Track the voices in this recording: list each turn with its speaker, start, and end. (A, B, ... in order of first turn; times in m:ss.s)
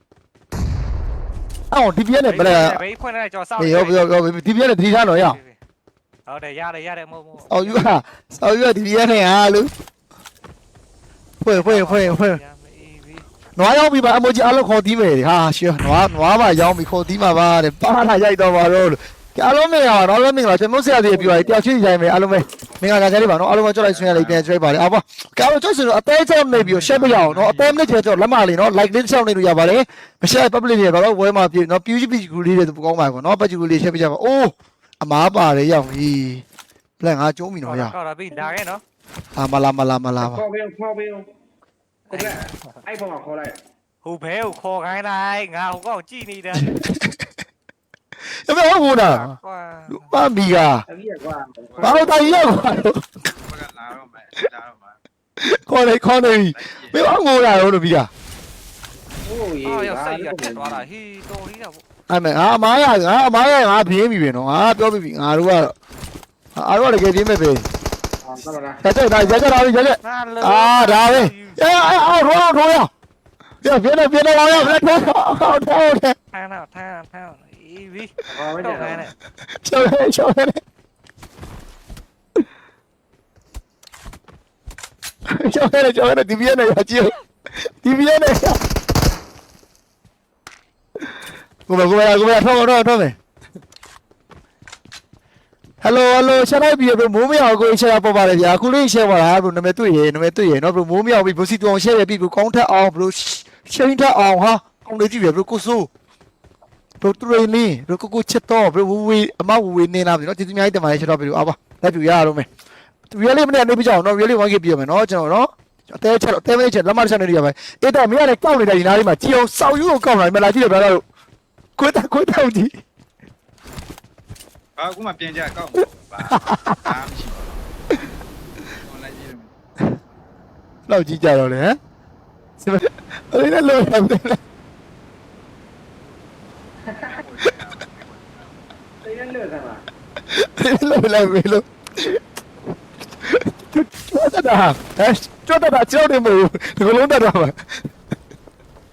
0:01.7-0:02.8 A
0:02.3-0:04.1 B
0:03.6-0:05.4 A
0:05.1-0:05.6 B
0:06.3-0:07.8 B
0:07.5-0:09.7 A
0:11.4-0:12.4 A
0:11.5-0:13.3 B
0:13.6-0:36.4 A
0:21.1-0:21.6 C
0:23.8-0:24.4 D
0:26.5-0:27.8 D
0:37.0-0:37.9 A
0:37.6-0:38.8 B
0:39.4-0:40.4 A
0:40.2-0:41.3 C
0:42.1-0:42.8 B
0:42.1-0:43.6 C
0:44.0-0:46.7 B
0:46.6-0:47.2 A
0:48.4-0:49.3 A
0:49.0-0:50.1 B
0:49.9-0:50.8 A
0:50.9-0:52.6 C
0:51.7-0:52.6 D
0:51.8-0:53.0 A
0:53.2-0:55.0 D
0:55.4-0:58.1 A
0:56.3-0:57.0 D
0:59.2-1:00.8 C
0:59.6-1:01.8 B
1:02.1-1:05.7 A
1:06.5-1:07.7 A
1:08.2-1:09.4 C
1:08.8-1:12.9 A
1:10.0-1:11.7 B
1:13.6-1:16.2 A
1:16.3-1:19.1 B
1:18.3-1:19.1 C
1:19.6-1:20.6 A
1:25.3-1:27.1 A
1:27.8-1:28.6 A
1:31.7-1:33.2 A
1:35.8-1:45.9 A
1:47.0-1:52.5 A
1:53.1-2:01.0 A
2:01.8-2:02.8 A
2:04.8-2:07.6 D
2:06.4-2:06.9 A
2:08.7-2:09.6 D
2:10.9-2:11.8 A
2:12.6-2:14.4 A
2:16.8-2:17.2 C
2:17.1-2:18.5 D
2:19.0-2:19.8 C
2:20.3-2:22.2 A
2:23.2-2:27.6 A